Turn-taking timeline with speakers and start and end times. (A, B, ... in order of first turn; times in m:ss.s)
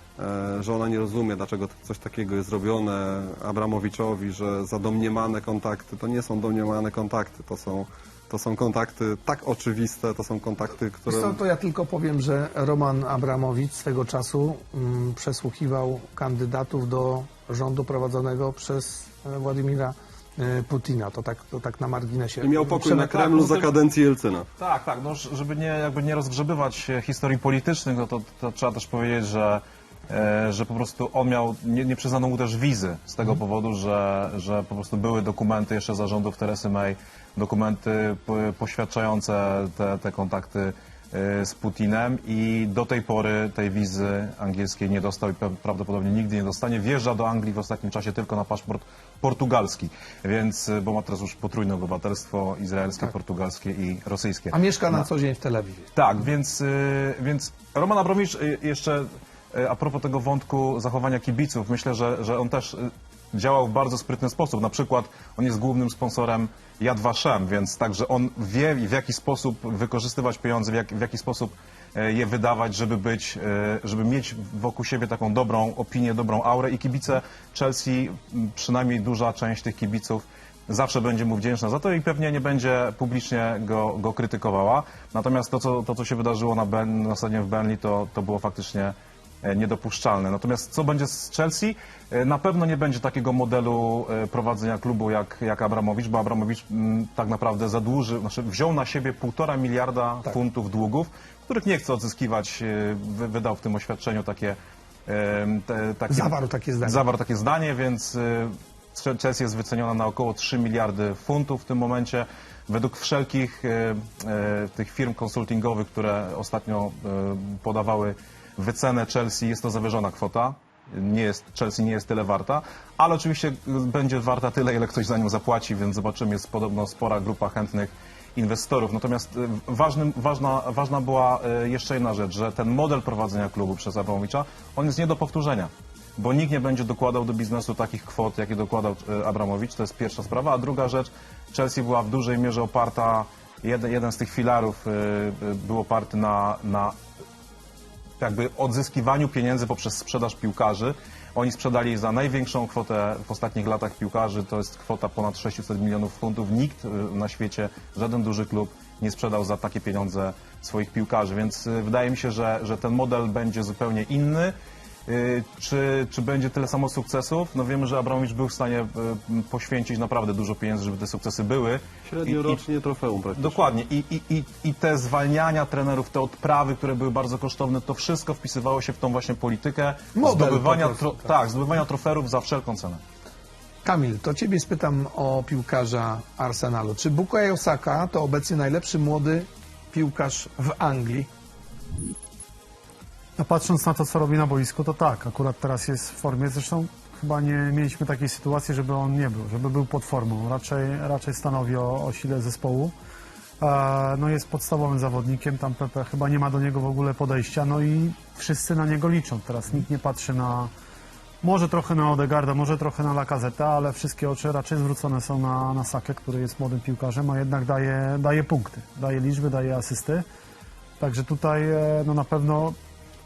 0:00.2-0:11.4 A
0:11.1-0:23.1 B
0:22.4-0:24.5 A
0:22.9-0:23.7 C
0:24.6-0:55.1 C
0:54.5-0:55.9 B
0:55.9-2:27.0 C
1:46.1-1:47.0 B
2:28.2-2:44.5 C
2:45.1-2:52.6 C
2:52.1-2:53.7 A
2:53.4-3:03.0 C
3:00.2-3:01.3 B
3:03.8-3:11.3 B
3:13.4-3:23.0 D
3:23.6-3:30.7 D
3:31.4-3:40.2 D
3:41.0-3:42.8 D